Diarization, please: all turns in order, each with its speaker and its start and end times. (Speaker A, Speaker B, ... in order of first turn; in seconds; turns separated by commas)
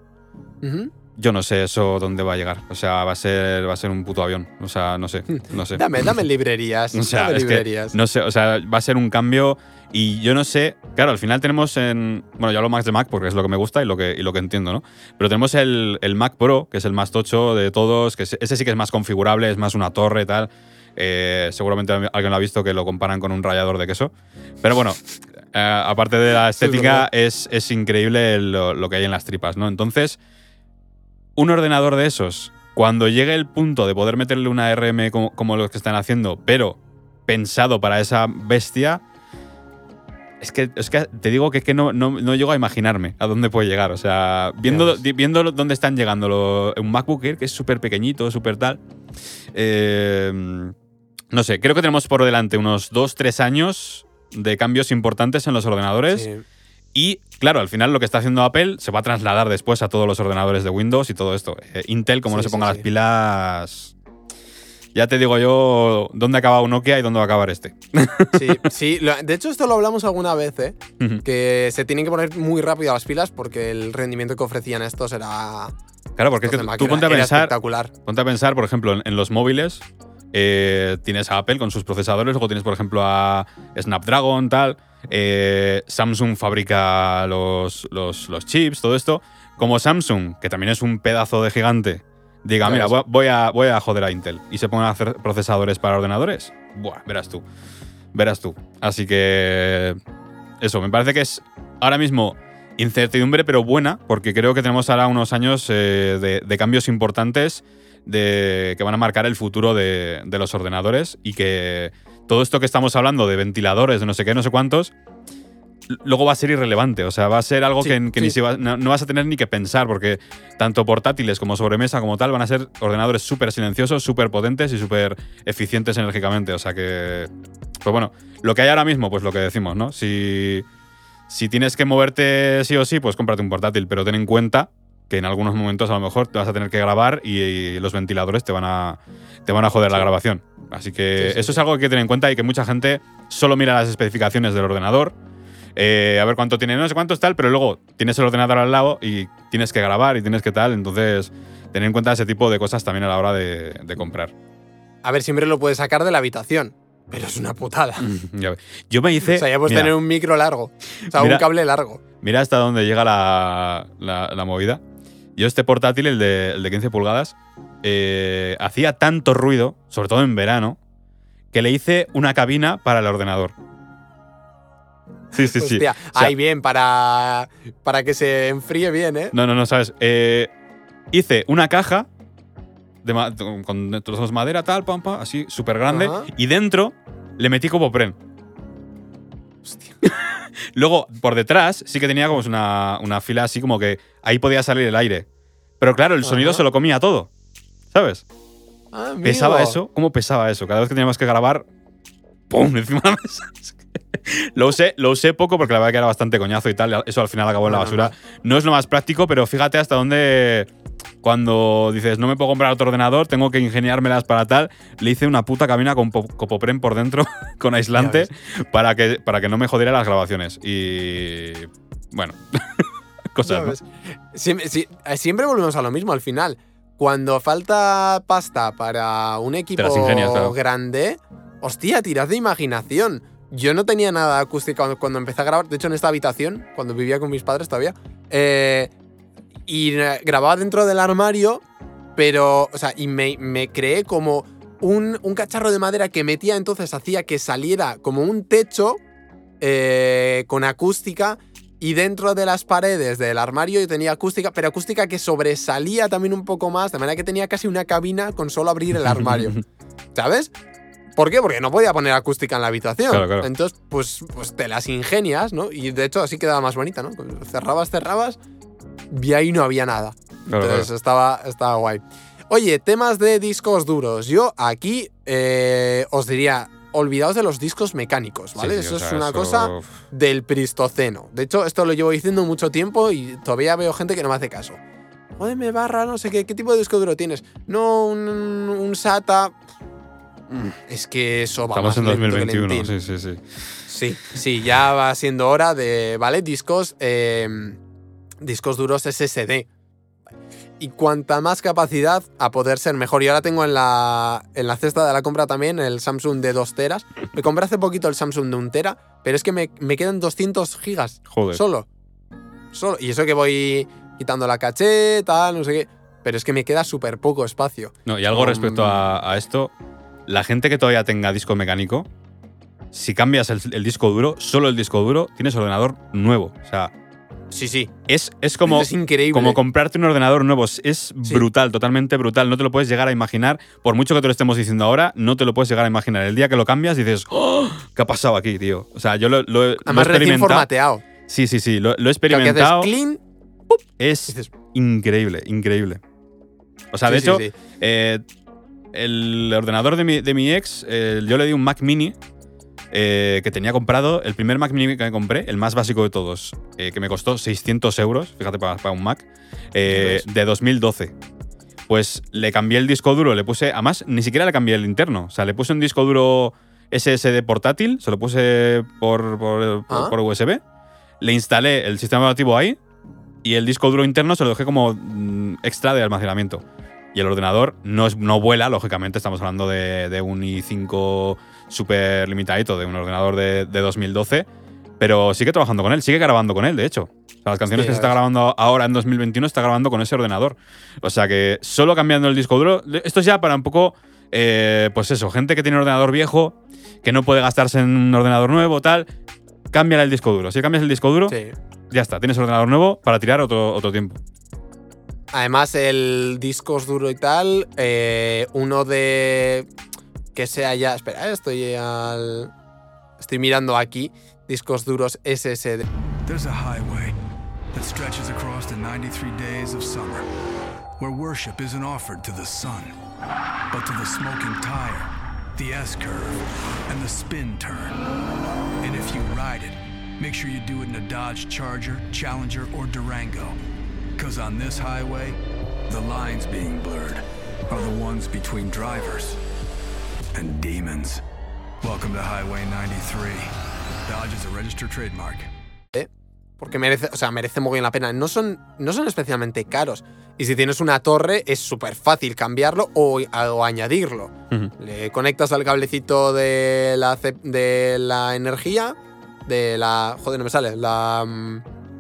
Speaker A: 0.6-0.9, Speaker B: 1.2-5.8, Speaker A: 5.3-8.0, Speaker B: 6.9-30.2, Speaker A: 26.6-27.1, Speaker B: 31.4-39.0, Speaker B: 40.4-48.8, Speaker A: 44.6-45.0, Speaker B: 49.5-50.8, Speaker B: 51.3-56.3, Speaker A: 56.1-56.4, Speaker B: 56.9-63.9, Speaker A: 62.3-62.9, Speaker B: 65.0-68.6, Speaker A: 68.3-75.7, Speaker B: 76.2-97.5, Speaker A: 76.4-77.9, Speaker A: 92.6-92.9, Speaker B: 98.1-100.0, Speaker B: 100.6-114.9, Speaker B: 115.9-127.3, Speaker A: 117.8-118.4, Speaker B: 127.8-130.7, Speaker B: 131.3-145.2, Speaker A: 139.8-140.1, Speaker A: 141.2-141.6, Speaker B: 145.8-154.3, Speaker A: 155.0-158.1, Speaker B: 158.0-160.0, Speaker A: 159.3-162.0, Speaker B: 161.1-161.5, Speaker B: 162.2-164.8, Speaker B: 165.4-170.8, Speaker B: 171.5-173.5, Speaker B: 175.3-176.3, Speaker A: 175.6-179.3, Speaker B: 179.3-180.5, Speaker B: 181.1-182.1, Speaker B: 183.0-188.2, Speaker A: 185.9-186.3, Speaker A: 189.7-189.9, Speaker B: 190.0-195.3, Speaker B: 195.8-197.3, Speaker A: 196.2-196.6, Speaker B: 197.9-198.2, Speaker A: 198.9-199.8, Speaker B: 199.2-201.7, Speaker B: 202.5-210.7, Speaker A: 207.7-208.1, Speaker B: 211.2-223.8, Speaker A: 218.0-218.3, Speaker A: 223.4-238.9, Speaker B: 229.8-230.6, Speaker A: 239.7-241.6, Speaker A: 242.2-249.0, Speaker A: 249.6-259.6, Speaker B: 259.1-259.6, Speaker A: 260.1-260.5, Speaker A: 261.2-268.4, Speaker B: 263.1-263.5, Speaker A: 269.1-284.8, Speaker B: 270.5-270.9, Speaker B: 278.6-279.9, Speaker A: 285.4-289.6, Speaker A: 290.9-292.9, Speaker B: 291.7-293.5, Speaker A: 293.9-297.8, Speaker A: 298.4-299.7, Speaker A: 300.8-311.9, Speaker B: 311.3-311.6, Speaker A: 312.7-319.0, Speaker B: 318.1-319.7, Speaker B: 320.3-322.1, Speaker B: 322.9-326.9, Speaker A: 327.5-327.9, Speaker B: 328.1-340.7, Speaker A: 328.7-329.6, Speaker A: 339.9-341.0, Speaker B: 341.3-342.9, Speaker A: 342.3-344.5, Speaker B: 344.0-346.0, Speaker B: 346.9-348.2, Speaker A: 347.1-347.5, Speaker B: 348.9-352.2, Speaker B: 352.9-361.1, Speaker A: 359.9-360.2, Speaker B: 361.9-370.6, Speaker A: 369.9-370.2, Speaker B: 371.2-372.8, Speaker B: 373.4-384.5, Speaker B: 385.0-399.1, Speaker A: 387.8-388.2, Speaker B: 399.7-401.4, Speaker A: 401.3-401.6, Speaker B: 401.9-404.2, Speaker A: 405.3-409.7, Speaker A: 410.3-412.5, Speaker A: 413.2-415.9, Speaker C: 416.2-420.3, Speaker C: 421.0-422.9, Speaker C: 423.7-428.0, Speaker C: 428.8-433.6, Speaker C: 434.2-439.4, Speaker C: 440.3-441.2, Speaker C: 441.8-443.5, Speaker C: 444.1-445.5, Speaker A: 445.9-461.6